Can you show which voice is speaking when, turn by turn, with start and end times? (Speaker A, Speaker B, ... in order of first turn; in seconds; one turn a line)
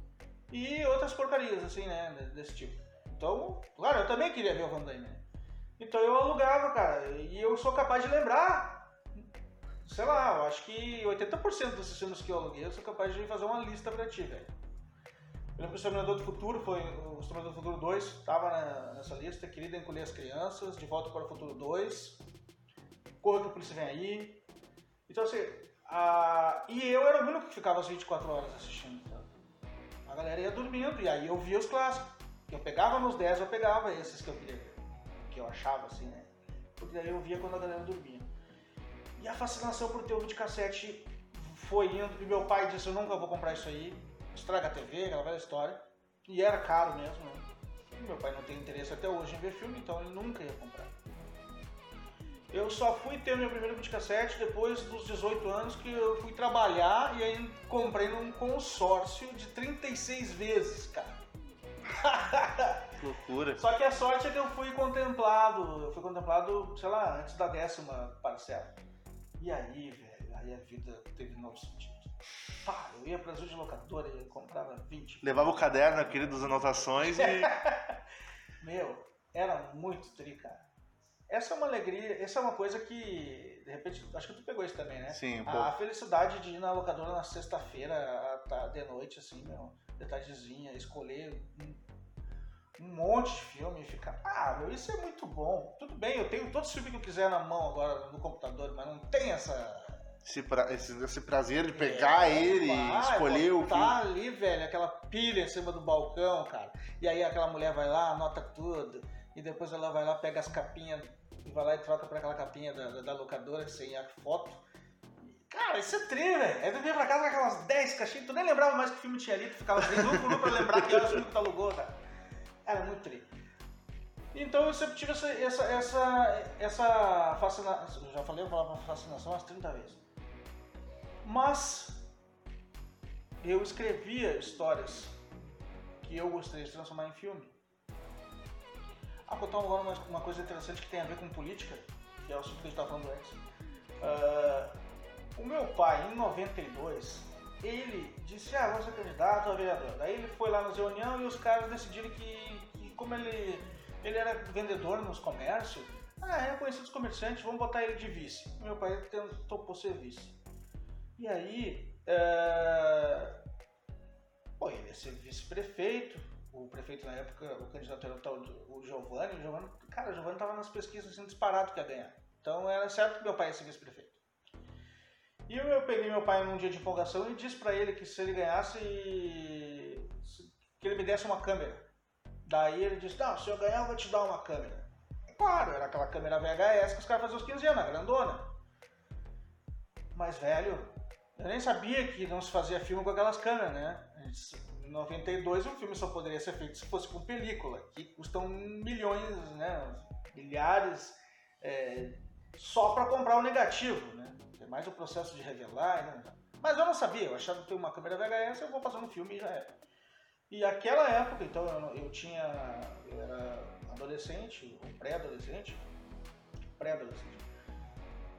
Speaker A: 0.5-5.2
Speaker A: 5.8-9.0
Speaker A: 9.8-14.6
Speaker A: 15.6-22.3
Speaker A: 23.2-24.4
Speaker A: 25.1-29.3
Speaker A: 30.1-38.3
Speaker A: 39.2-51.0
Speaker A: 52.5-61.2
Speaker A: 61.9-63.0
Speaker B: 63.0-63.6
Speaker A: 63.6-68.8
Speaker A: 69.4-76.4
Speaker B: 75.2-77.6
Speaker A: 77.0-78.0
Speaker A: 78.6-80.7
Speaker A: 81.3-91.8
Speaker B: 85.1-85.7
Speaker A: 92.8-100.0
Speaker B: 100.2-104.0
Speaker A: 101.7-114.6
Speaker A: 115.2-122.0
Speaker A: 122.7-123.3
Speaker A: 124.3-130.0
Speaker A: 131.2-132.1
Speaker A: 133.4-135.2
Speaker A: 136.0-137.6
Speaker A: 139.3-143.4
Speaker A: 144.0-144.8
Speaker A: 145.4-160.4
Speaker A: 161.2-163.4
Speaker A: 164.6-174.2
Speaker A: 175.5-181.9
Speaker A: 182.4-188.5
Speaker A: 190.1-209.8
Speaker A: 210.5-215.8
Speaker A: 216.8-217.5